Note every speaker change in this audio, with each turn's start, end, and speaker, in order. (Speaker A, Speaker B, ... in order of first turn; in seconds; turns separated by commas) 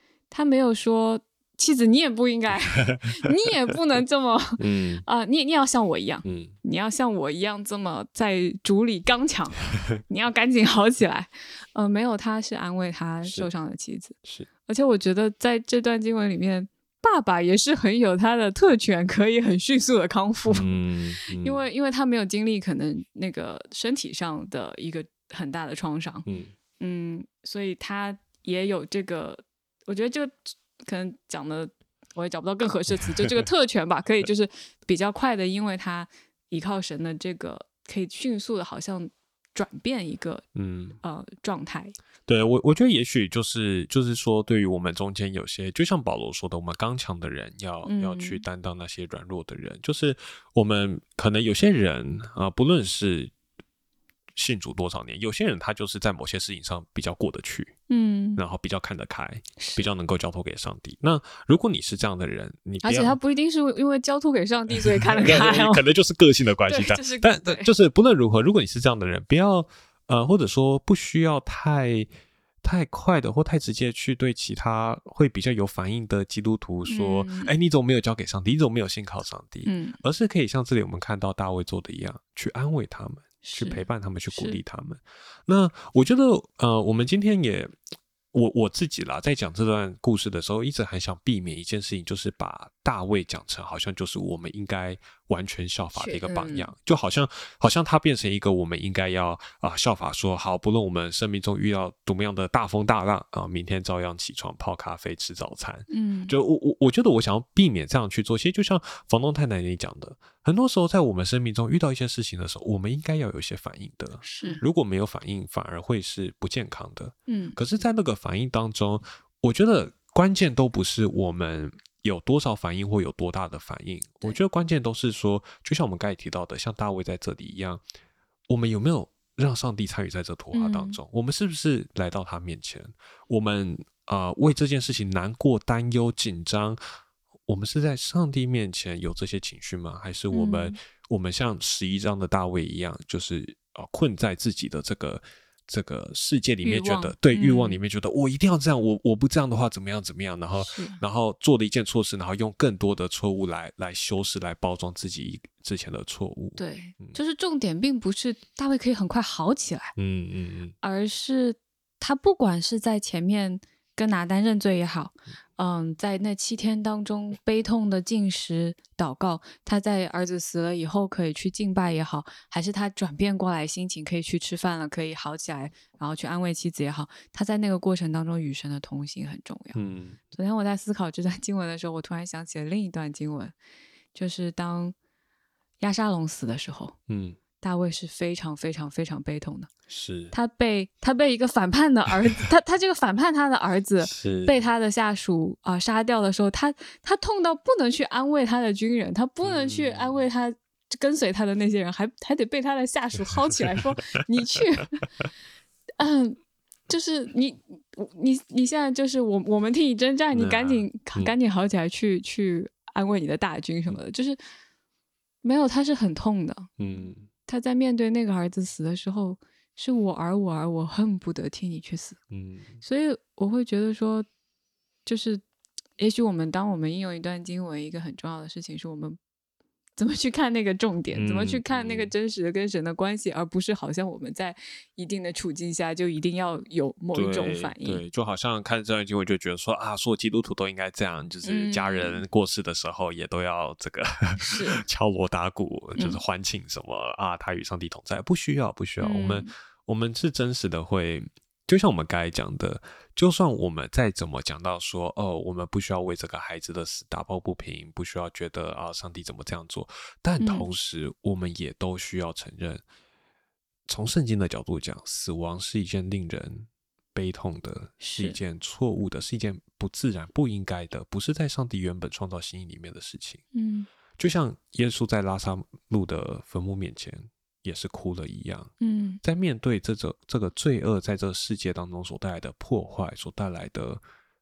Speaker A: 0.3-26.3, Speaker B: 2.8-3.1, Speaker B: 4.6-5.0, Speaker B: 6.2-6.6, Speaker B: 13.2-13.5, Speaker B: 20.5-21.6, Speaker B: 26.3-26.6, Speaker A: 26.8-40.5, Speaker B: 40.5-41.0, Speaker A: 41.0-42.0, Speaker B: 42.3-53.3, Speaker A: 47.9-48.4, Speaker B: 54.4-57.8, Speaker A: 57.9-58.4, Speaker B: 58.4-63.2, Speaker A: 59.6-59.9, Speaker A: 62.8-65.8, Speaker B: 64.7-72.1, Speaker A: 66.7-67.7, Speaker B: 72.6-87.7, Speaker A: 76.9-77.5, Speaker A: 79.7-80.0, Speaker A: 83.4-84.6, Speaker B: 88.3-127.8, Speaker A: 96.0-96.7, Speaker A: 105.9-106.3, Speaker A: 114.2-114.6, Speaker A: 117.3-117.6, Speaker B: 128.5-136.8, Speaker A: 130.5-131.0, Speaker B: 137.5-157.2, Speaker A: 140.3-140.8, Speaker A: 146.6-147.8, Speaker A: 150.6-151.0, Speaker A: 156.6-159.9, Speaker B: 160.0-160.8, Speaker A: 160.8-179.8, Speaker B: 179.8-180.2, Speaker A: 180.3-183.6, Speaker A: 184.2-184.9, Speaker A: 185.8-187.0, Speaker B: 187.1-187.4, Speaker A: 187.6-189.7, Speaker B: 189.9-190.3, Speaker A: 190.3-204.9, Speaker B: 194.0-194.6, Speaker B: 199.4-200.2, Speaker A: 206.0-214.4, Speaker B: 210.3-211.3, Speaker A: 215.4-216.7, Speaker B: 216.8-217.3, Speaker A: 217.5-222.2, Speaker B: 222.3-222.8, Speaker A: 222.8-224.3, Speaker A: 225.1-225.4, Speaker A: 226.0-229.2, Speaker A: 230.0-238.0, Speaker B: 231.1-232.1, Speaker B: 237.1-262.8, Speaker A: 241.4-242.2, Speaker A: 244.4-244.8, Speaker A: 246.0-246.2, Speaker A: 249.0-249.5, Speaker A: 260.4-260.7, Speaker B: 263.9-273.4, Speaker A: 268.0-268.4, Speaker A: 273.5-273.9, Speaker B: 274.2-284.0, Speaker A: 278.8-279.2